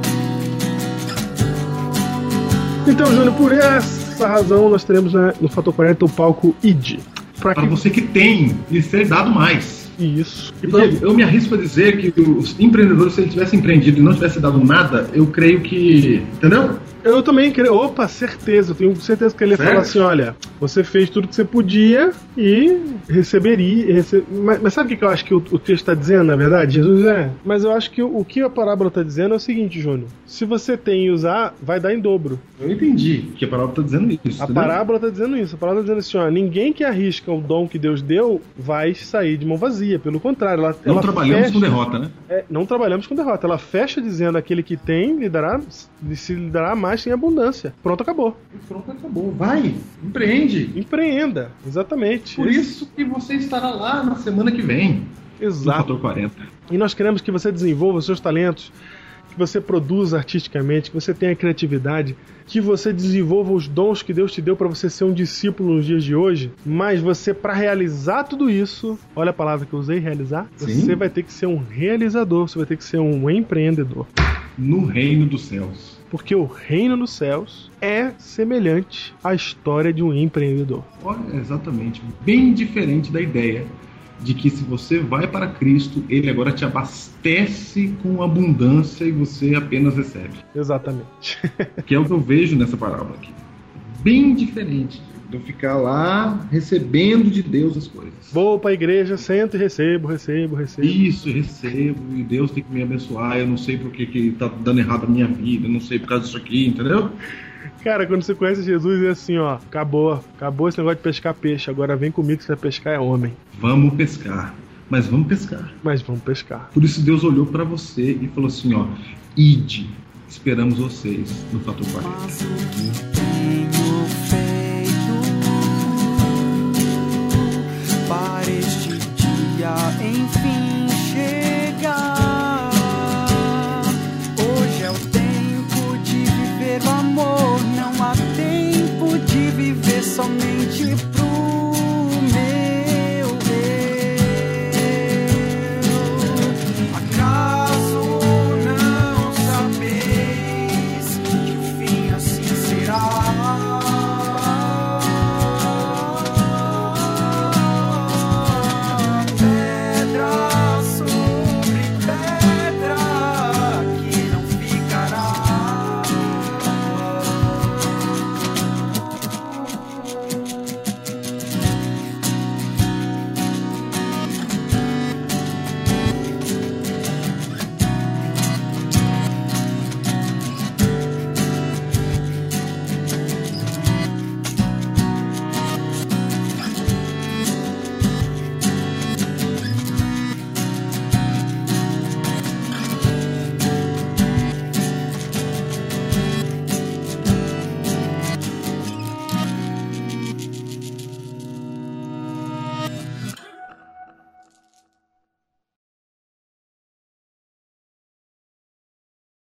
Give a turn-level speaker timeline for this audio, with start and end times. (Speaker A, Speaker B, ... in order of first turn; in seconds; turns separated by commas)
Speaker A: 2.8-7.8, Speaker B: 7.5-9.9, Speaker A: 10.0-10.9, Speaker B: 10.6-16.9, Speaker A: 17.0-32.4, Speaker B: 19.6-20.0, Speaker B: 32.6-34.8, Speaker A: 34.4-41.8, Speaker B: 40.8-42.1, Speaker A: 42.3-48.4, Speaker B: 48.5-50.8, Speaker A: 50.7-52.7, Speaker B: 52.4-56.5, Speaker A: 55.4-55.9, Speaker A: 56.7-58.7, Speaker A: 59.3-74.1, Speaker B: 70.6-71.0, Speaker B: 74.6-76.0, Speaker A: 76.1-80.9, Speaker B: 81.0-90.4, Speaker A: 90.5-91.8, Speaker B: 91.8-98.4, Speaker A: 98.3-101.0, Speaker B: 100.8-107.2, Speaker A: 107.8-113.4, Speaker B: 113.5-115.8, Speaker A: 115.8-116.7, Speaker B: 116.7-122.4, Speaker C: 122.0-167.9